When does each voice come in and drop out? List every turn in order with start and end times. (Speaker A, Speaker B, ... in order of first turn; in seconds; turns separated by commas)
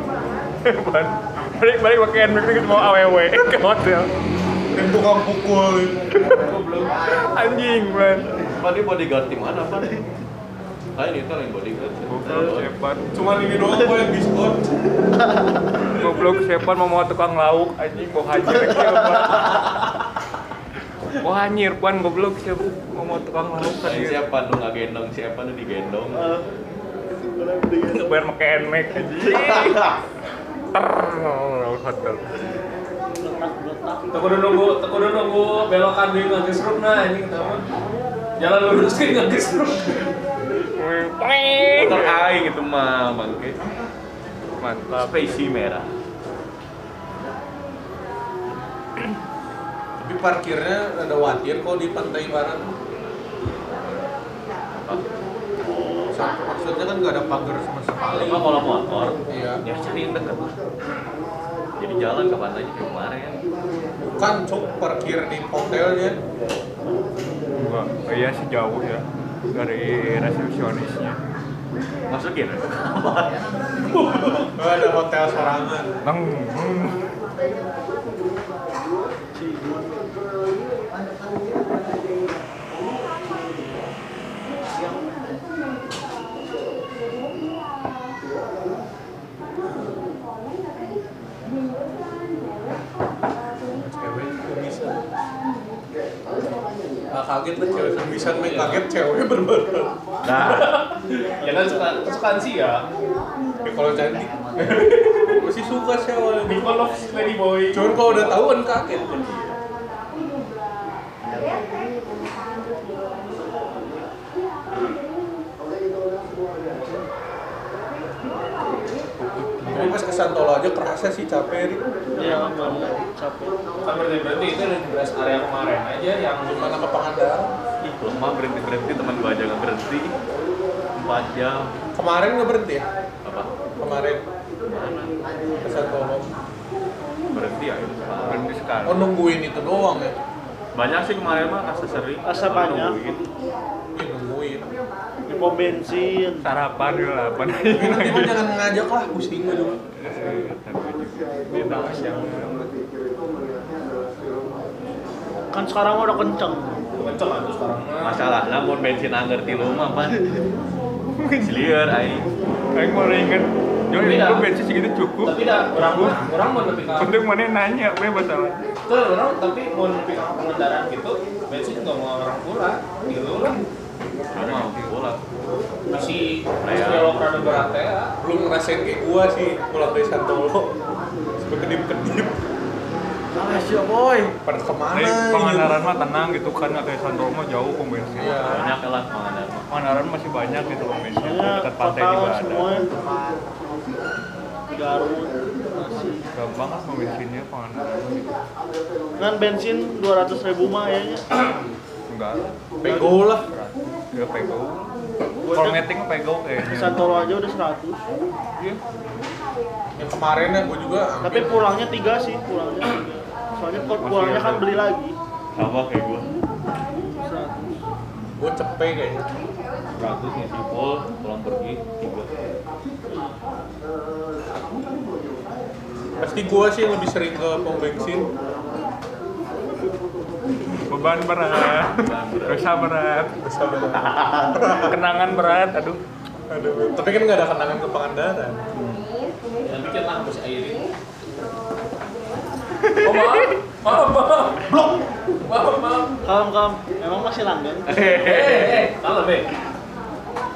Speaker A: 0.6-4.1, Speaker B: 4.7-6.1, Speaker C: 6.5-6.9, Speaker A: 7.1-8.4, Speaker D: 8.4-10.0, Speaker D: 10.9-12.7, Speaker A: 12.1-13.1, Speaker B: 13.1-15.2, Speaker B: 15.8-16.3, Speaker A: 15.9-19.8, Speaker A: 21.1-24.2, Speaker D: 23.6-26.2, Speaker E: 26.1-26.5, Speaker E: 27.2-28.2, Speaker A: 27.9-29.9, Speaker D: 29.4-29.8, Speaker A: 30.7-32.4, Speaker E: 33.2-34.2, Speaker C: 34.1-37.6, Speaker C: 38.4-40.1, Speaker A: 40.8-42.3, Speaker D: 41.7-43.6, Speaker A: 44.6-45.1, Speaker D: 44.9-45.9, Speaker B: 50.0-52.7, Speaker D: 54.8-55.1, Speaker B: 56.1-58.4, Speaker D: 58.1-60.5, Speaker B: 59.3-59.6, Speaker D: 61.8-63.4, Speaker B: 64.2-66.2, Speaker A: 67.5-71.2, Speaker D: 72.1-73.6, Speaker C: 73.9-74.5, Speaker B: 74.5-76.0, Speaker A: 76.0-77.0, Speaker E: 79.3-80.0, Speaker B: 93.7-95.0, Speaker B: 97.1-100.0, Speaker C: 98.4-98.8, Speaker D: 100.2-100.7, Speaker C: 100.3-102.8, Speaker B: 103.6-106.7, Speaker C: 104.6-105.4, Speaker C: 106.4-108.3, Speaker B: 107.7-109.2, Speaker D: 109.2-109.5, Speaker A: 119.2-119.9, Speaker B: 119.7-121.8, Speaker E: 122.2-123.5, Speaker C: 123.8-126.7, Speaker B: 126.4-127.5, Speaker D: 127.8-130.1, Speaker D: 130.9-131.8, Speaker B: 131.9-132.8, Speaker D: 133.2-133.5, Speaker B: 133.8-134.2, Speaker D: 134.7-135.1, Speaker B: 135.6-136.3, Speaker D: 137.3-138.5, Speaker A: 138.2-139.1, Speaker B: 138.8-140.2, Speaker D: 140.7-143.3, Speaker E: 142.2-143.0, Speaker B: 143.9-144.7, Speaker E: 145.3-146.5, Speaker A: 146.4-148.3, Speaker B: 147.7-149.8, Speaker A: 150.0-150.8, Speaker D: 150.0-151.2, Speaker A: 151.4-152.7, Speaker E: 155.5-156.9, Speaker C: 157.0-158.2, Speaker D: 158.0-160.3, Speaker A: 161.2-161.6, Speaker D: 161.4-162.3, Speaker A: 162.7-166.2, Speaker C: 163.9-164.5, Speaker C: 165.2-167.2, Speaker A: 167.0-168.6, Speaker C: 168.9-173.6, Speaker D: 174.3-175.2, Speaker A: 174.3-174.9, Speaker C: 175.9-178.1, Speaker D: 176.6-177.7, Speaker B: 178.2-180.7, Speaker B: 181.4-182.4, Speaker D: 183.3-184.3, Speaker B: 184.4-185.9, Speaker A: 184.9-188.7, Speaker B: 188.2-188.7, Speaker D: 188.4-189.7, Speaker A: 189.7-192.7, Speaker E: 191.2-192.9, Speaker E: 194.7-196.3, Speaker A: 196.3-198.4, Speaker E: 199.2-201.3, Speaker A: 202.1-204.9, Speaker B: 202.8-203.5, Speaker E: 205.4-205.8, Speaker A: 205.5-207.2, Speaker E: 206.7-208.1, Speaker B: 209.9-211.7, Speaker E: 211.2-215.1, Speaker A: 213.9-214.8, Speaker D: 215.5-216.3, Speaker E: 217.1-217.7, Speaker B: 218.4-219.3, Speaker D: 219.9-222.3, Speaker E: 223.1-223.3, Speaker B: 226.2-228.3, Speaker A: 230.8-233.4, Speaker D: 231.7-232.7, Speaker B: 233.4-235.0, Speaker D: 234.1-234.5, Speaker A: 234.7-236.0, Speaker B: 236.5-238.6, Speaker C: 239.6-240.8, Speaker A: 242.8-243.5, Speaker C: 243.0-244.8, Speaker C: 245.4-246.1, Speaker E: 246.2-248.0, Speaker D: 247.9-248.9, Speaker C: 248.0-249.5